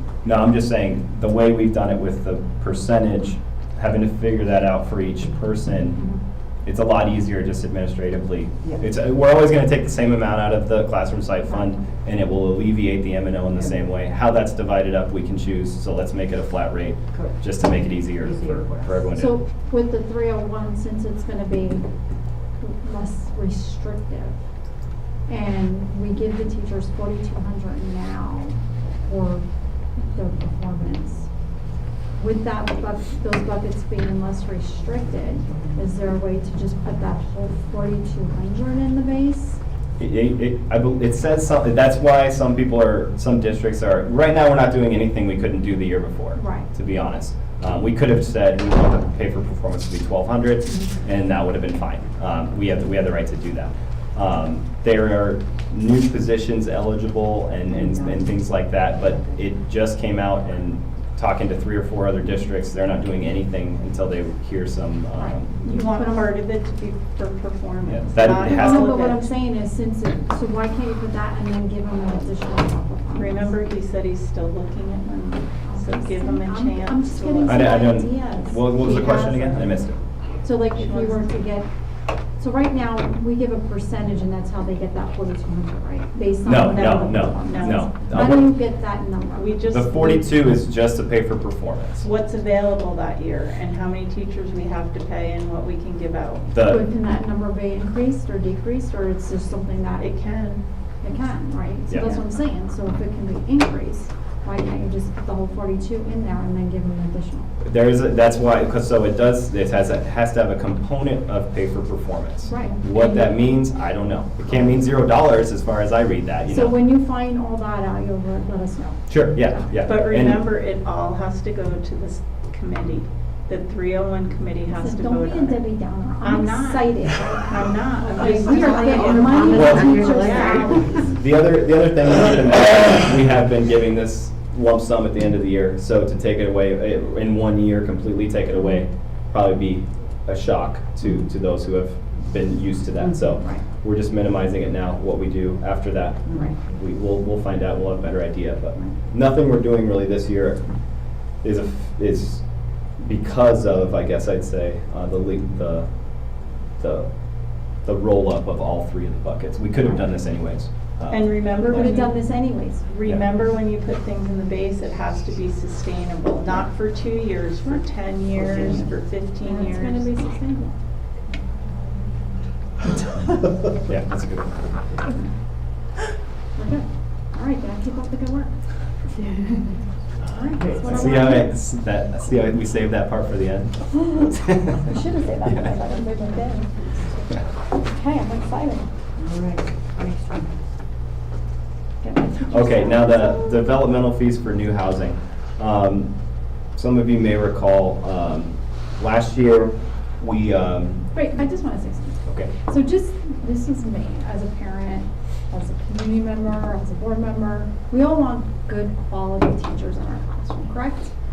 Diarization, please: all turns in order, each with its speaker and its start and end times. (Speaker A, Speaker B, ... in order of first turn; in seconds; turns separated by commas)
Speaker A: 0.2-6.0, Speaker A: 6.6-19.4, Speaker B: 18.2-19.0, Speaker C: 19.1-21.9, Speaker C: 22.6-24.4, Speaker C: 25.3-29.4, Speaker C: 30.0-31.3, Speaker C: 32.2-39.6, Speaker A: 40.0-65.5, Speaker C: 46.3-46.7, Speaker C: 65.2-66.3, Speaker D: 65.6-69.3, Speaker A: 67.9-69.0, Speaker C: 68.3-73.5, Speaker D: 73.1-77.7, Speaker C: 75.6-79.8, Speaker A: 77.4-80.0, Speaker C: 80.4-81.7, Speaker D: 80.8-81.2, Speaker C: 82.4-90.0, Speaker A: 86.4-88.5, Speaker D: 86.7-87.9, Speaker D: 89.3-90.2, Speaker A: 89.7-92.0, Speaker D: 92.0-96.5, Speaker A: 96.5-96.8, Speaker C: 96.6-100.1, Speaker D: 100.0-100.6, Speaker C: 101.0-107.5, Speaker A: 101.9-102.2, Speaker A: 107.6-116.8, Speaker C: 112.4-113.1, Speaker D: 112.9-113.3, Speaker C: 116.5-119.7, Speaker A: 119.1-120.4, Speaker D: 119.8-125.6, Speaker C: 124.7-131.1, Speaker D: 126.2-130.9, Speaker B: 128.2-131.0, Speaker A: 129.5-129.9, Speaker A: 130.9-150.6, Speaker B: 146.3-146.5, Speaker A: 151.4-152.4, Speaker A: 153.0-155.9, Speaker A: 156.8-157.1, Speaker A: 157.8-162.0, Speaker D: 161.1-162.2, Speaker C: 161.5-162.9, Speaker D: 162.8-170.1, Speaker C: 168.5-168.8, Speaker B: 168.6-168.8, Speaker C: 169.4-170.8, Speaker A: 173.8-174.8, Speaker C: 176.6-178.5, Speaker C: 180.2-181.5, Speaker B: 180.6-181.1, Speaker A: 180.7-184.9, Speaker C: 184.8-188.9, Speaker A: 185.4-185.7, Speaker B: 189.2-190.5, Speaker C: 192.0-193.6, Speaker A: 192.4-196.1, Speaker A: 196.8-201.0, Speaker C: 201.1-211.1, Speaker A: 202.2-202.5